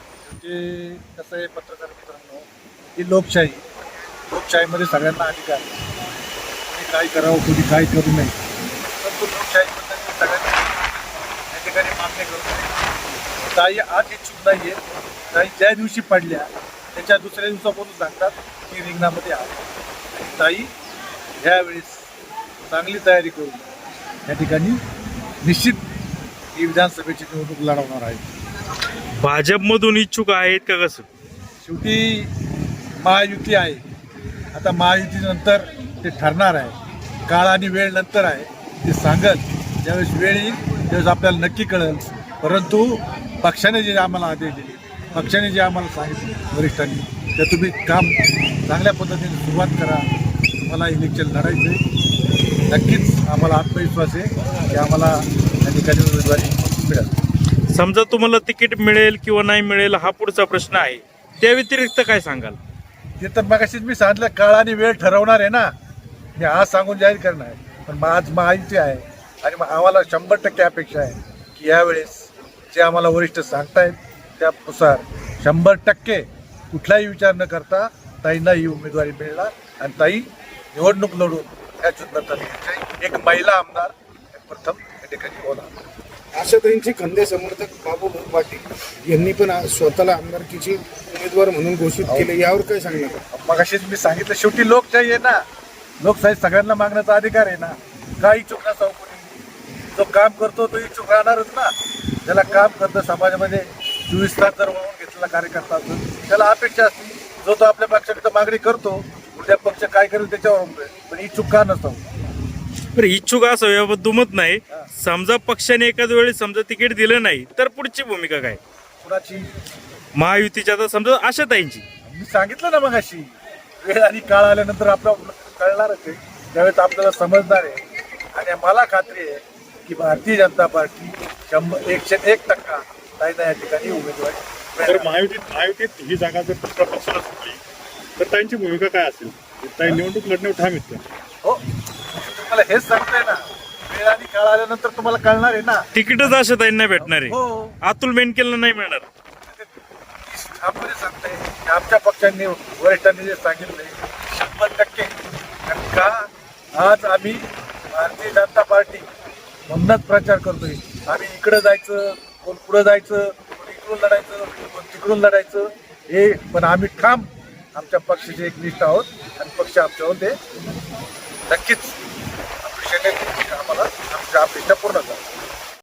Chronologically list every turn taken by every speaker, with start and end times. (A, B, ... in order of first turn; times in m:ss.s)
0:00.2-0:03.6 A
0:04.3-0:05.7 A
0:06.7-0:08.4 A
0:09.0-0:12.8 A
0:13.5-0:14.8 A
0:15.3-0:20.7 A
0:21.4-0:22.1 A
0:22.7-0:23.7 A
0:24.2-0:24.8 A
0:25.4-0:25.8 A
0:26.5-0:28.3 A
0:29.2-0:31.1 B
0:31.6-0:32.3 A
0:33.0-0:33.8 A
0:34.5-0:36.8 A
0:37.3-0:50.0 A
0:50.6-0:51.8 A
0:52.7-0:57.1 A
0:57.7-1:02.6 B
1:03.2-1:05.7 A
1:06.4-1:25.7 A
1:26.3-1:33.2 C
1:32.0-1:32.3 A
1:33.3-1:35.4 A
1:36.0-1:39.3 A
1:39.9-1:41.7 A
1:42.2-1:52.0 A
1:52.9-1:58.6 B
1:59.0-1:59.5 A
2:00.1-2:01.8 B
2:02.1-2:07.8 A
2:08.3-2:15.1 A
2:14.8-2:17.6 D
2:18.2-2:21.0 D
2:22.1-2:26.4 A
2:25.9-2:29.1 B
2:27.0-2:27.7 A
2:30.2-2:35.1 A
2:35.7-2:36.2 A
2:36.8-2:39.1 A
2:39.7-2:50.4 A
2:51.5-2:52.0 A
2:52.6-2:55.2 A